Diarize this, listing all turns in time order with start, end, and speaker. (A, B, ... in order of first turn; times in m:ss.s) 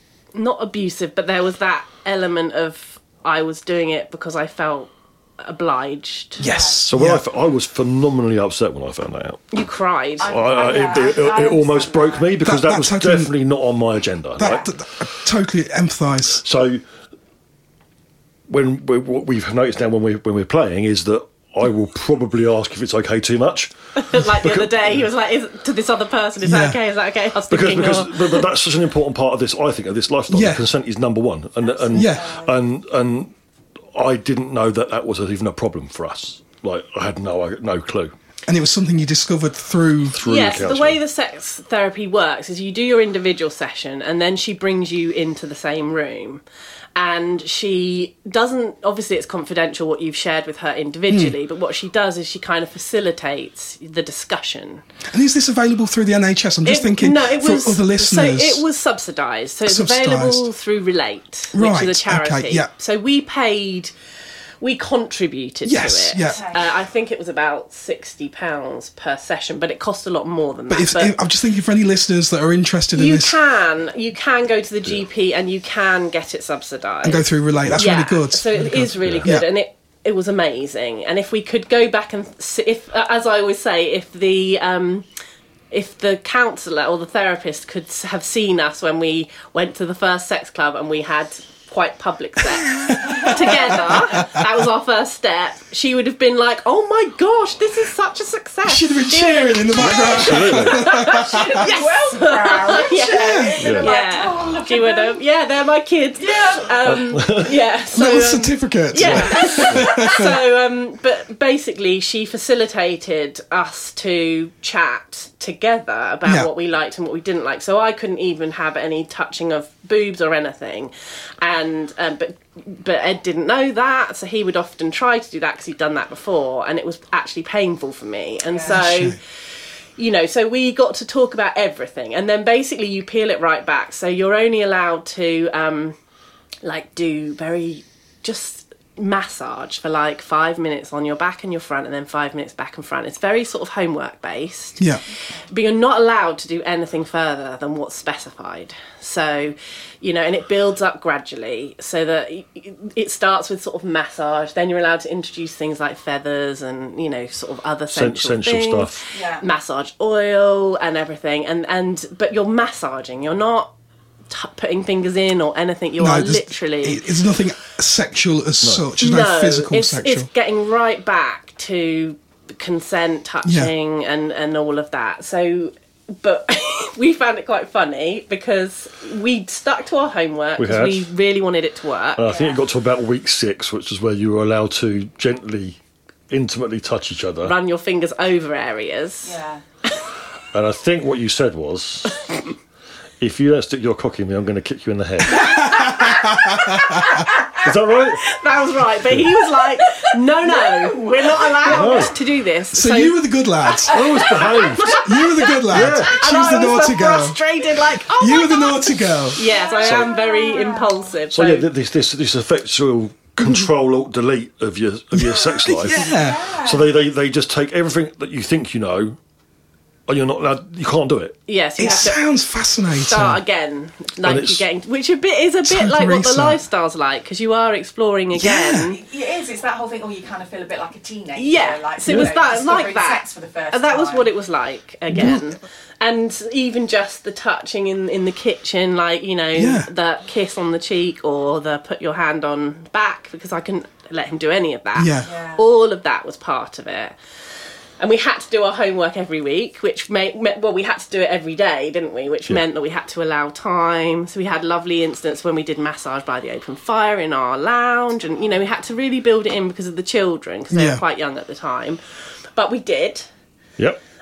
0:00.3-0:06.5 A
0:06.4-0:07.2 B
0:06.4-0:06.8 C
0:06.9-0:09.5 D
0:09.5-0:10.4 A
0:10.2-0:12.3 C
0:10.2-0:14.7 D
0:12.4-0:13.3 B
0:14.4-0:16.4 B
0:14.4-0:14.7 C
0:16.4-0:16.8 D
0:18.5-0:25.1 D
0:24.0-0:28.5 A
0:26.4-0:26.8 B
0:27.5-0:33.3 D
0:30.3-0:30.6 B
0:31.6-0:32.6 C
0:31.9-0:32.3 B
0:33.9-0:38.1 D
0:38.5-0:40.2 B
0:40.1-0:41.0 D
0:40.2-0:46.4 A
0:47.0-0:54.8 A
0:51.1-0:51.4 B
0:55.1-0:58.6 B
0:56.6-1:03.9 A
0:59.7-1:00.5 B
1:01.5-1:02.7 B
1:04.6-1:11.2 A
1:05.6-1:06.4 B
1:06.3-1:06.8 C
1:10.7-1:13.4 B
1:12.9-1:25.1 A
1:17.0-1:19.5 B
1:19.0-1:19.3 D
1:25.7-2:09.2 A
1:32.7-1:34.5 B
1:33.0-1:33.4 C
1:38.6-1:41.7 B
1:39.8-1:40.9 D
1:41.0-1:45.2 C
1:43.1-1:43.7 B
1:43.6-1:43.9 D
1:46.2-1:46.8 C
1:46.8-1:47.6 D
1:47.9-1:50.4 B
1:49.0-1:49.9 D
2:08.5-2:09.0 C
2:08.7-2:09.2 B
2:10.0-2:16.0 A
2:16.6-2:43.7 A
2:37.9-2:39.0 D
2:39.1-2:39.4 C
2:44.3-2:47.1 A
2:46.0-2:50.3 B
2:48.6-2:48.9 D
2:49.0-3:02.3 A
2:53.4-2:53.7 B
3:00.6-3:01.1 D
3:02.2-3:05.8 D
3:02.3-3:02.6 C
3:06.3-3:07.6 D
3:07.4-3:10.0 A
3:09.2-3:09.6 C
3:10.5-3:12.2 D
3:13.2-3:15.6 D
3:15.4-3:17.0 B
3:15.7-3:17.3 A
3:17.6-3:18.3 D
3:18.2-3:23.2 A
3:20.5-3:22.1 C
3:21.7-3:22.1 D
3:22.7-3:24.0 B
3:23.8-3:25.0 C
3:23.9-3:25.0 D
3:24.6-3:31.7 A
3:25.0-3:27.4 B
3:25.7-3:26.2 D
3:28.0-3:29.4 B
3:29.4-3:31.1 C
3:29.8-3:30.1 D
3:31.3-3:39.2 D
3:35.1-3:36.4 B
3:35.9-3:37.0 C
3:40.1-3:41.4 D
3:41.5-3:42.2 A
3:41.8-3:43.4 B
3:42.9-3:49.0 A
3:44.2-3:44.6 D
3:45.6-3:46.6 B
3:48.3-3:48.9 B
3:48.8-3:54.3 C
3:51.4-4:07.2 A
3:55.1-3:55.5 B
3:59.6-3:59.9 B
4:05.0-4:05.3 B
4:05.2-4:05.6 C
4:08.0-4:22.0 A
4:20.7-4:21.0 B
4:22.6-4:23.3 A